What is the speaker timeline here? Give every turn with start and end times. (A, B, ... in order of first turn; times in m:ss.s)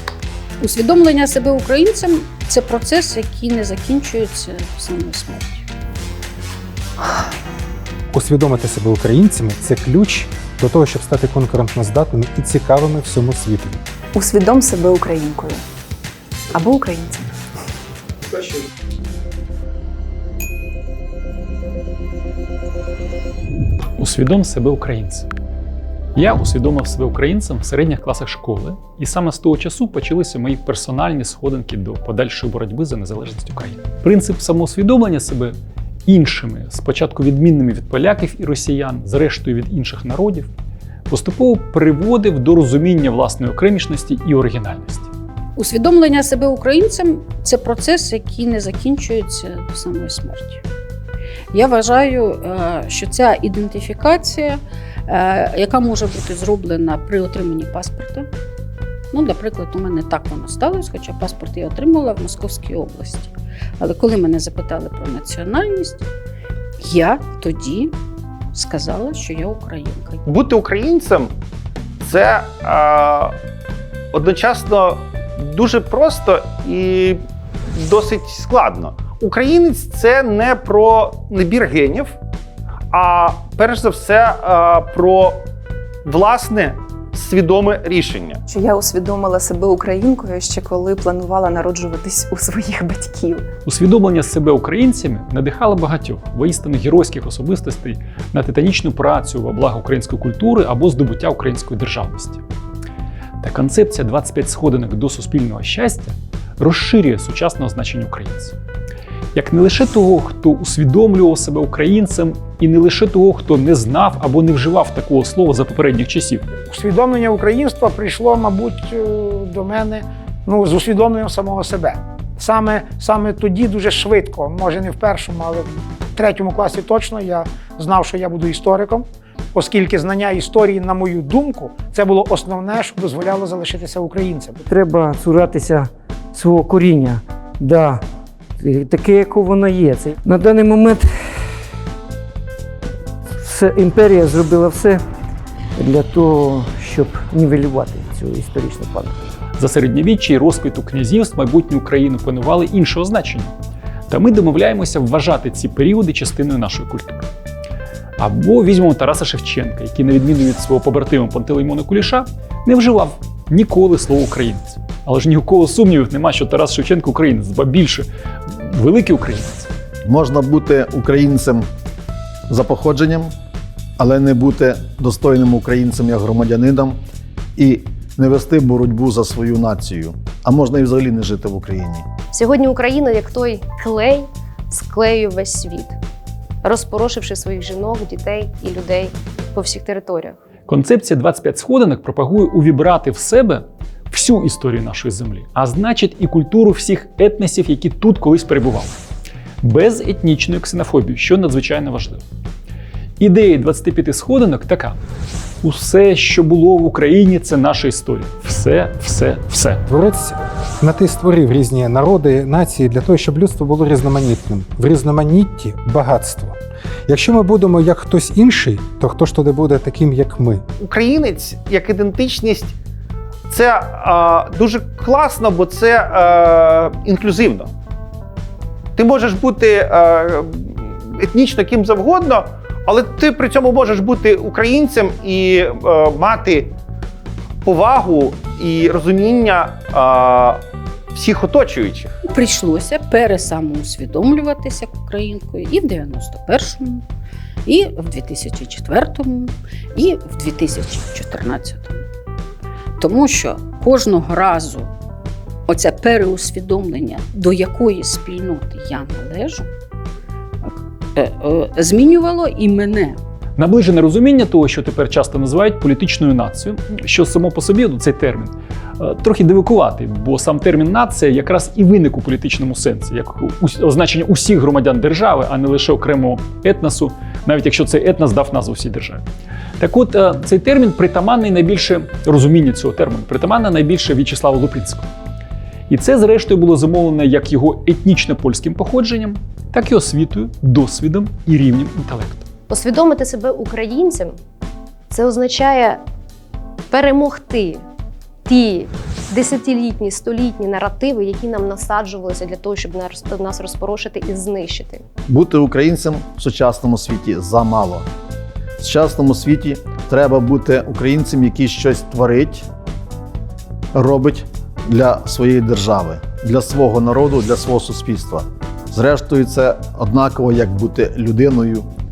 0:00.6-0:05.6 A
0:08.1-0:13.8 B
0:14.1-0:15.6 C
0:16.5-0:17.3 C
0:24.0-0:25.3 D
0:26.2-0:40.5 D
0:41.1-0:45.1 D
0:45.6-0:50.6 A
0:51.5-0:58.3 A
0:59.1-1:06.0 A
1:06.8-1:07.9 A
1:08.5-1:10.2 A
1:10.2-1:11.3 E
1:12.0-1:13.3 E
1:14.1-1:17.2 E
1:17.7-1:22.1 E
1:22.9-1:25.4 E
1:26.0-1:28.4 E
1:28.5-1:33.4 C
1:33.6-1:42.4 D
1:43.4-1:48.5 D
1:49.3-1:56.5 D
1:56.7-2:14.6 F
2:14.7-2:18.0 G
2:18.6-2:21.1 G
2:23.4-2:25.0 G
2:25.8-2:29.2 G
2:29.6-2:33.5 D
2:34.1-2:37.3 D
2:38.2-2:49.7 D
2:50.0-2:51.6 H
2:52.5-2:53.3 H
2:54.0-2:57.0 H
2:57.6-3:02.0 H
3:02.3-3:06.0 I
3:06.6-3:10.4 I
3:10.7-3:18.9 D
3:19.6-3:22.2 D
3:23.2-3:25.0 D
3:25.6-3:29.8 D
3:29.9-3:36.6 B
3:37.1-3:40.6 B
3:40.8-3:42.8 E
3:43.5-3:47.7 E
3:49.0-3:56.7 E
3:57.6-4:00.6 E
4:01.1-4:02.1 E
4:02.2-4:07.0 A
4:07.6-4:12.0 A
4:13.0-4:14.9 A
4:15.7-4:19.7 A
4:20.6-4:23.2 A
4:23.6-4:39.2 D
4:39.8-4:45.1 D
4:45.9-4:52.5 D
4:52.7-4:54.4 I
4:55.1-4:56.0 I
4:56.9-4:57.8 I
4:58.5-5:05.0 I
5:05.3-5:08.1 H
5:08.8-5:12.6 H
5:13.9-5:21.9 H